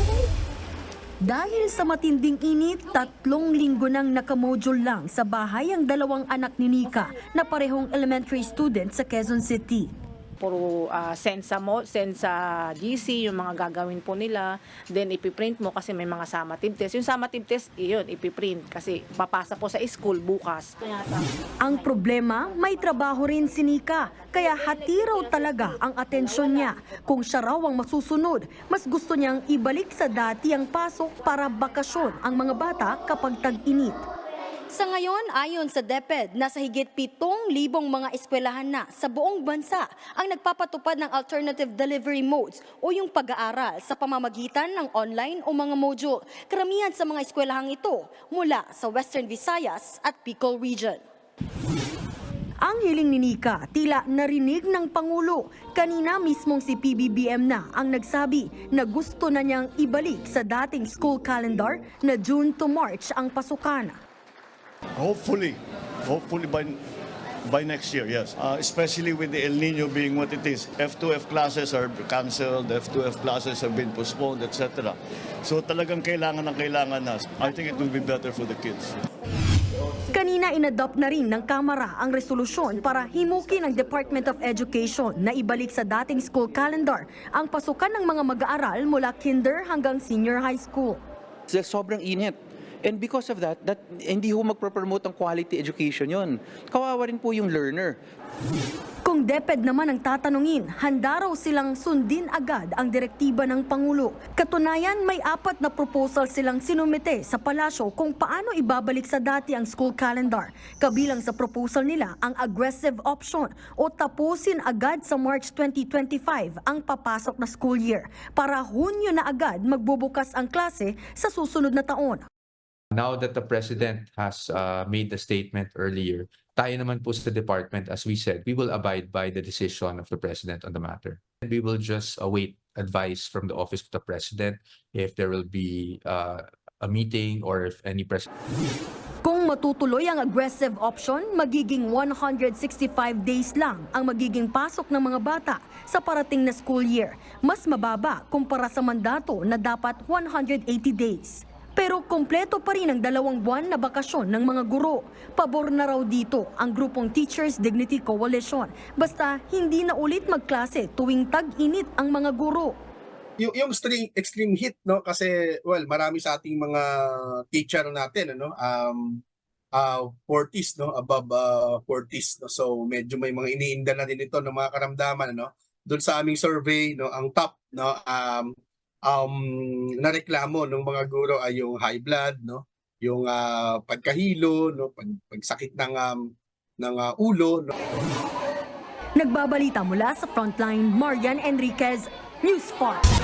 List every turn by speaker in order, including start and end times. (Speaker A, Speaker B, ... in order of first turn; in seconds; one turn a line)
Speaker A: 1.2-9.9
Speaker B: 10.4-21.3
Speaker A: 21.6-34.1
Speaker A: 34.7-51.0
Speaker A: 52.6-64.0
Speaker C: 65.0-66.8
Speaker C: 67.5-79.0
Speaker A: 80.1-91.0
Speaker D: 91.5-98.0
Speaker A: 99.0-122.3
Speaker E: 122.9-138.3
Speaker A: 139.2-162.8
Speaker F: 163.4-169.2
Speaker F: 169.8-178.5
Speaker F: 179.1-186.2
Speaker F: 186.8-187.7
Speaker A: 189.2-193.0